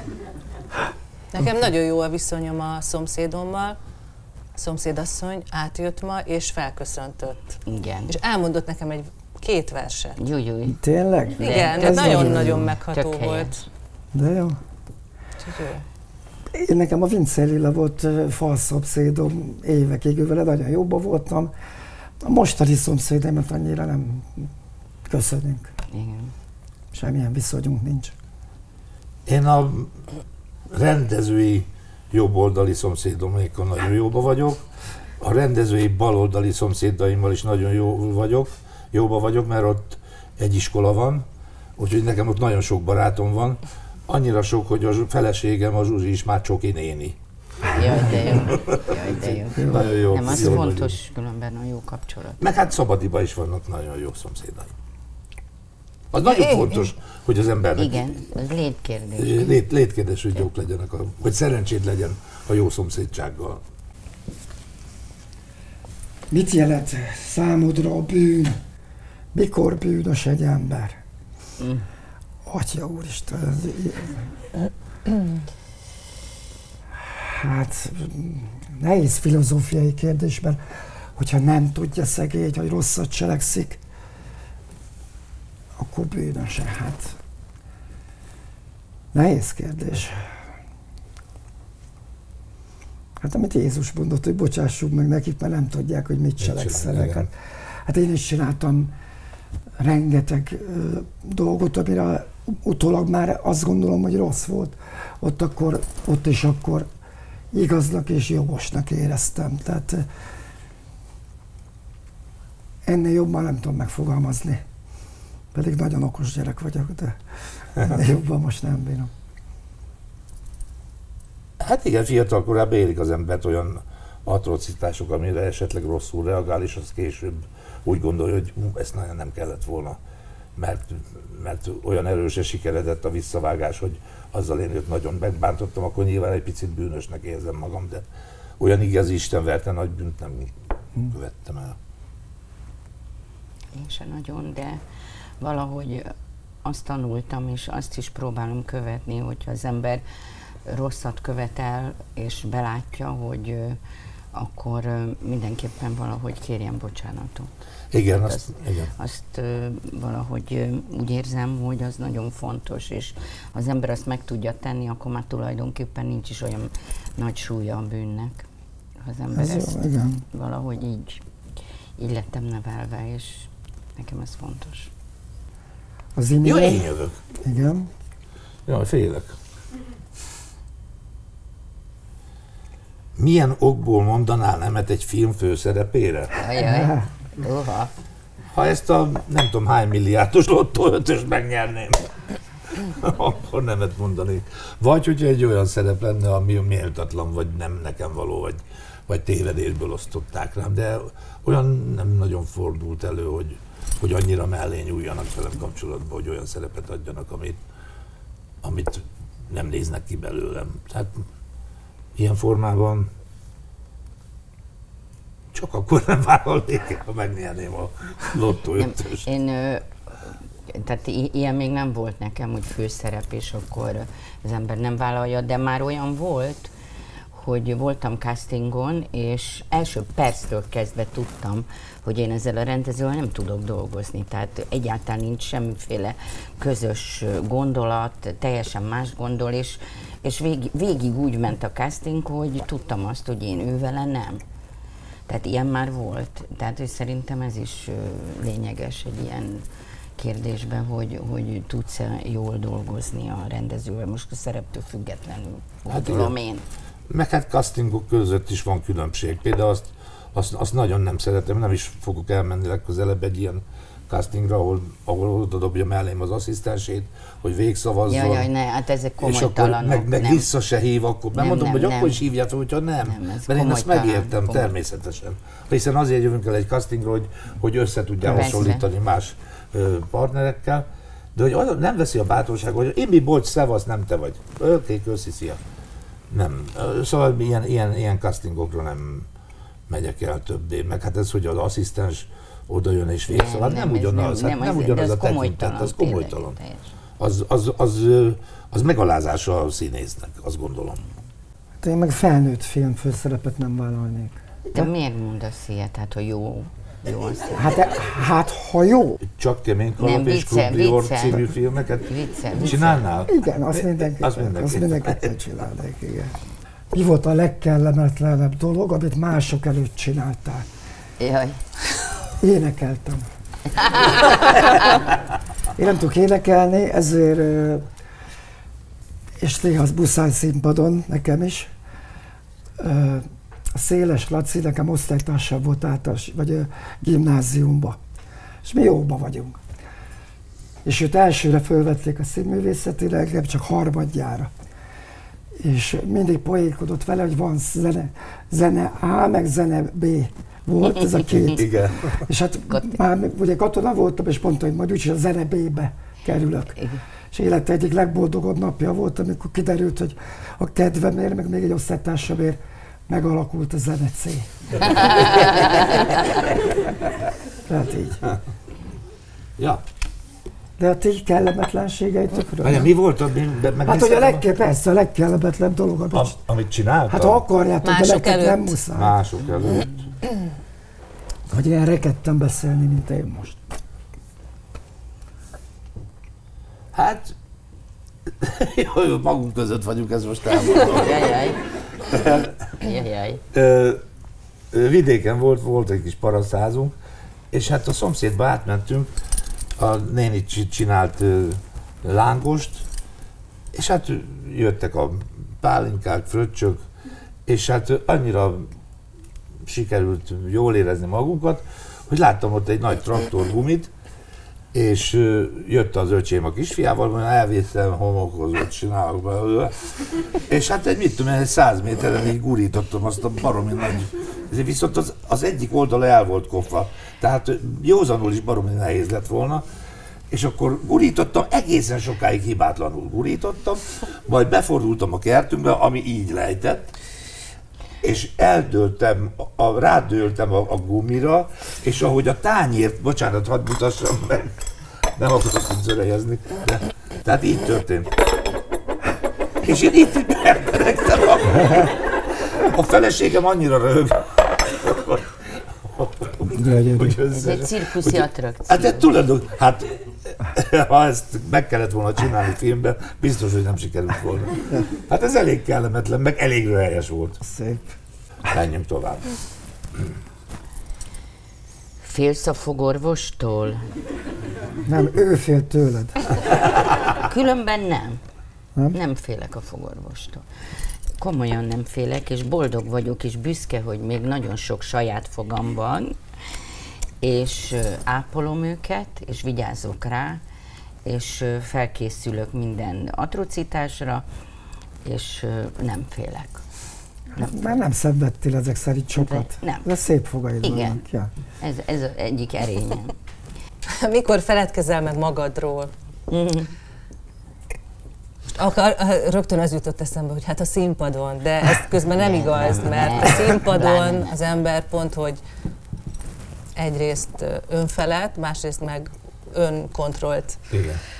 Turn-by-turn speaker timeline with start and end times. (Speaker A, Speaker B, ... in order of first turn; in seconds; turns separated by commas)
Speaker A: 1.3-3.8, Speaker A: 4.5-7.6, Speaker B: 7.7-8.2, Speaker A: 8.1-10.2, Speaker B: 10.2-10.8, Speaker C: 10.7-12.7, Speaker B: 11.4-13.7, Speaker A: 11.4-13.6, Speaker C: 14.1-14.6, Speaker A: 15.4-15.8, Speaker C: 16.5-21.5, Speaker C: 22.2-24.5, Speaker C: 25.1-25.7, Speaker B: 25.9-26.3, Speaker C: 26.9-28.1, Speaker D: 29.3-29.9, Speaker D: 30.7-34.6, Speaker D: 35.2-41.3, Speaker D: 41.8-50.9, Speaker B: 47.7-52.4, Speaker C: 49.6-49.9, Speaker D: 52.4-54.7, Speaker D: 56.1-58.1, Speaker A: 56.2-56.9, Speaker B: 57.8-59.6, Speaker D: 59.2-63.6, Speaker C: 66.3-68.6, Speaker C: 69.3-71.0, Speaker B: 71.6-71.9, Speaker C: 72.5-74.2, Speaker C: 77.0-80.6, Speaker C: 81.2-83.8, Speaker C: 85.8-87.2, Speaker C: 89.1-90.4, Speaker C: 93.2-98.9, Speaker D: 96.4-97.3, Speaker C: 99.8-106.9, Speaker C: 107.5-110.1, Speaker C: 112.8-114.6, Speaker C: 115.5-117.2, Speaker C: 117.8-119.1, Speaker D: 121.6-130.0, Speaker D: 130.6-138.1, Speaker D: 138.6-140.5, Speaker D: 141.1-141.8, Speaker B: 143.7-144.8, Speaker B: 145.4-146.1, Speaker B: 146.6-150.0, Speaker B: 150.7-153.8, Speaker B: 154.3-157.5, Speaker D: 157.9-158.9, Speaker B: 158.1-168.4, Speaker B: 169.0-171.2, Speaker C: 169.3-170.2, Speaker B: 172.0-174.9, Speaker C: 176.2-176.9, Speaker D: 176.4-177.2, Speaker C: 177.4-177.9, Speaker D: 178.7-179.4, Speaker D: 183.2-186.3, Speaker B: 186.4-187.9, Speaker C: 186.6-187.1, Speaker D: 188.5-192.1, Speaker D: 192.8-207.6, Speaker D: 208.6-211.2, Speaker D: 212.2-213.1, Speaker D: 215.5-219.3, Speaker B: 218.8-219.8, Speaker B: 220.7-226.7, Speaker B: 227.3-244.4, Speaker B: 245.3-249.7, Speaker B: 250.2-256.6, Speaker D: 255.9-256.4, Speaker D: 257.1-268.5, Speaker B: 268.1-270.5, Speaker D: 269.2-285.6, Speaker B: 271.3-272.2, Speaker B: 273.1-274.7, Speaker B: 278.3-278.9, Speaker D: 286.3-289.3, Speaker D: 289.9-296.6, Speaker B: 293.3-296.9, Speaker D: 297.2-301.0, Speaker C: 301.8-304.9, Speaker B: 304.7-307.8, Speaker C: 307.6-309.2, Speaker D: 309.3-315.3, Speaker B: 310.0-311.4, Speaker B: 312.1-313.1, Speaker C: 313.3-316.4, Speaker C: 316.9-320.7, Speaker B: 321.2-321.6, Speaker C: 322.4-323.3, Speaker B: 323.8-324.6, Speaker C: 325.8-327.9, Speaker C: 329.4-331.7, Speaker C: 332.8-338.0, Speaker C: 338.6-339.6, Speaker C: 340.9-344.5, Speaker C: 345.6-356.8, Speaker D: 351.3-352.2, Speaker B: 352.7-353.0, Speaker C: 357.3-365.2, Speaker B: 365.2-365.9, Speaker D: 365.2-366.0, Speaker C: 367.7-368.2, Speaker D: 369.6-369.8, Speaker C: 370.8-372.9, Speaker D: 372.6-374.4, Speaker C: 373.8-376.4, Speaker D: 376.1-377.4, Speaker C: 377.1-379.2, Speaker A: 377.8-378.8, Speaker D: 378.9-380.1, Speaker C: 381.5-383.6, Speaker D: 386.9-387.3, Speaker D: 388.4-391.3, Speaker B: 390.9-391.6, Speaker D: 392.1-392.8, Speaker B: 392.8-393.4, Speaker D: 393.5-394.0, Speaker D: 394.7-396.9, Speaker D: 397.5-399.1, Speaker D: 399.8-402.9, Speaker D: 403.7-406.8, Speaker D: 407.5-408.7, Speaker D: 409.7-413.9, Speaker D: 414.7-429.6, Speaker D: 430.3-436.9, Speaker D: 438.0-444.5, Speaker D: 445.2-448.1, Speaker D: 449.6-452.1, Speaker D: 452.6-467.4, Speaker C: 456.5-457.2, Speaker B: 457.3-459.1, Speaker C: 467.4-468.0, Speaker D: 468.5-469.3, Speaker B: 472.0-473.9, Speaker C: 474.9-476.2, Speaker B: 477.2-478.2, Speaker B: 478.9-480.4, Speaker B: 481.2-486.2, Speaker B: 487.2-490.4, Speaker B: 491.1-494.2, Speaker B: 495.1-496.6, Speaker C: 497.3-501.3, Speaker B: 497.4-497.8, Speaker B: 499.2-499.9, Speaker B: 500.6-501.0, Speaker B: 501.6-503.1, Speaker A: 503.9-505.9, Speaker B: 506.3-506.7, Speaker A: 508.6-515.4, Speaker B: 512.2-514.3, Speaker A: 516.8-520.6, Speaker D: 520.7-521.0